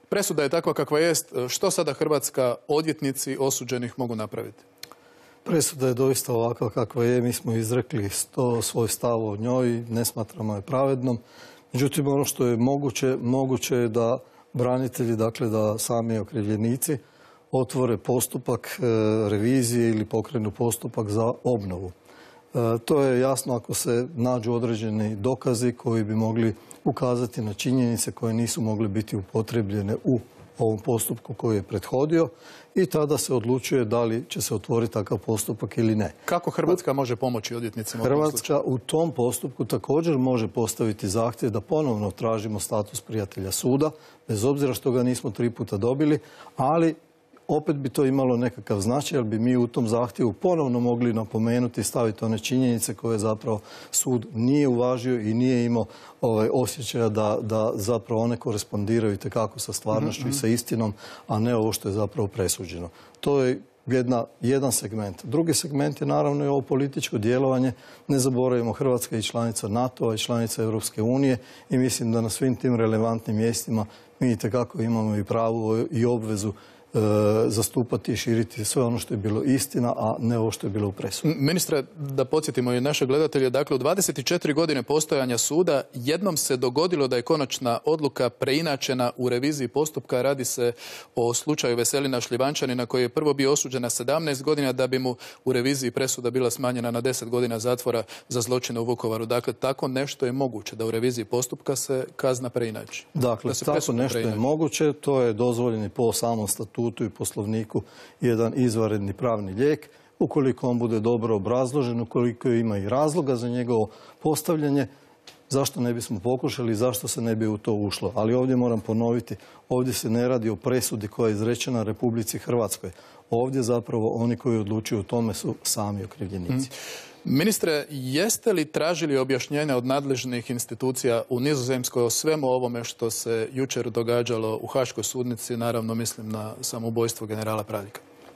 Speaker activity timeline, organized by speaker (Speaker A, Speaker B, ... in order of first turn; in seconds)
Speaker A: 0.1-4.6, 36.3-38.5, 81.2-104.4, 127.2-138.0
Speaker B: 5.5-11.2, 11.7-17.0, 17.5-21.9, 22.5-36.1, 38.0-47.0, 47.5-81.3, 103.2-114.9, 115.5-126.7